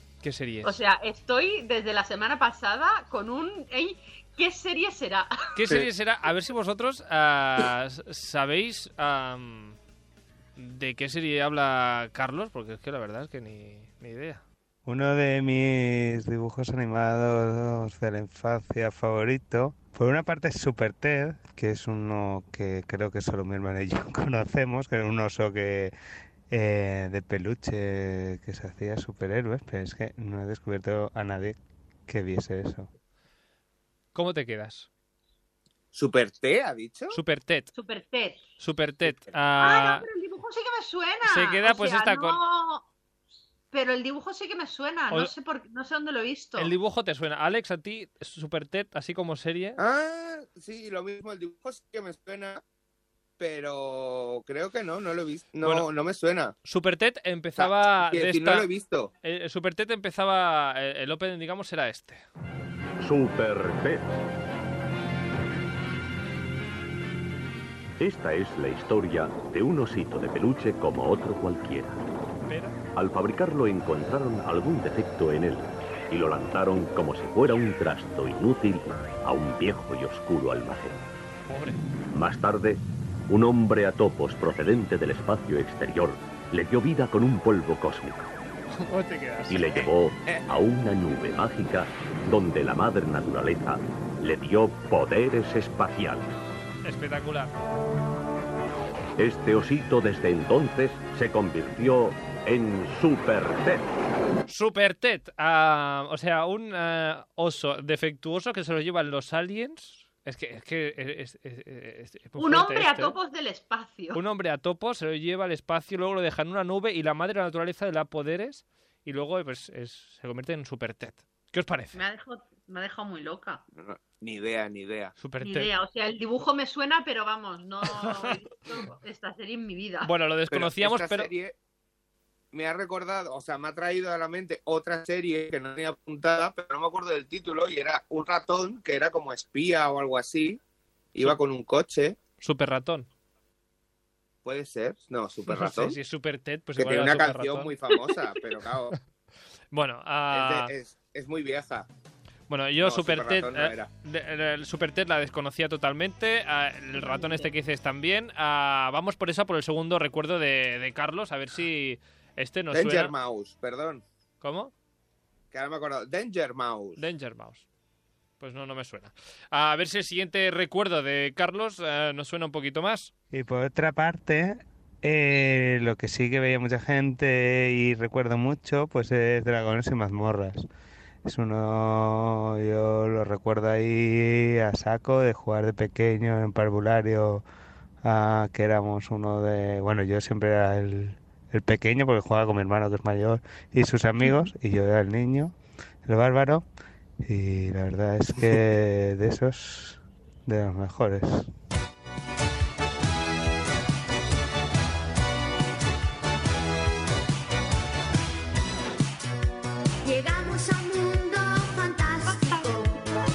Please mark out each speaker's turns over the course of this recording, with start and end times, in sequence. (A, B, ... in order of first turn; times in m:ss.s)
0:00.2-0:00.7 A
0:00.6-0:05.3 B
0:05.6-0:09.8 A
0:10.6-0:14.4 A
0:14.9-0:25.9 C
0:26.5-0:32.9 C
0:34.2-0:34.9 A
0:35.9-0:37.2 D
0:37.1-0:37.7 A
0:37.8-0:38.4 B
0:38.6-0:40.1 A
0:39.6-0:42.8 B
0:41.3-0:42.4 A
0:43.7-0:46.7 B
0:46.6-0:49.8 A
0:49.8-0:52.6 D
0:53.4-0:56.5 D
0:55.6-0:55.9 A
0:56.6-0:58.7 A
0:57.6-0:59.1 D
0:59.2-1:02.2 A
1:03.0-1:04.1 E
1:08.0-1:12.0 E
1:12.5-1:12.8 A
1:13.0-1:21.1 E
1:21.5-1:21.8 A
1:22.1-1:28.3 E
1:28.8-1:29.9 A
1:29.5-1:36.3 E
1:36.8-1:37.5 A
1:39.2-1:44.0 E
1:44.5-1:53.2 A
1:52.4-1:54.2 B
1:54.1-2:02.0 A
2:01.9-2:03.6 B
2:03.8-2:05.1 D
2:05.2-2:05.7 A
2:05.4-2:10.1 B
2:07.9-2:08.4 A
2:10.0-2:11.3 A
2:10.5-2:11.5 D
2:12.5-2:20.6 D
2:21.1-2:22.2 D
2:22.4-2:23.1 A
2:24.4-2:26.0 D
2:25.5-2:28.2 A
2:26.8-2:29.0 D
2:29.7-2:30.7 A
2:30.3-2:31.9 D
2:32.5-2:43.1 A
2:32.8-2:33.9 D
2:37.0-2:37.5 B
2:42.7-2:44.0 D
2:44.4-2:44.7 A
2:45.5-2:47.0 D
2:47.0-2:47.6 A
2:48.4-2:53.1 A
2:53.3-3:00.6 C
3:01.2-3:07.4 C
3:08.0-3:16.6 C
3:17.2-3:21.5 C
3:30.0-3:33.1 F
3:32.3-3:32.7 B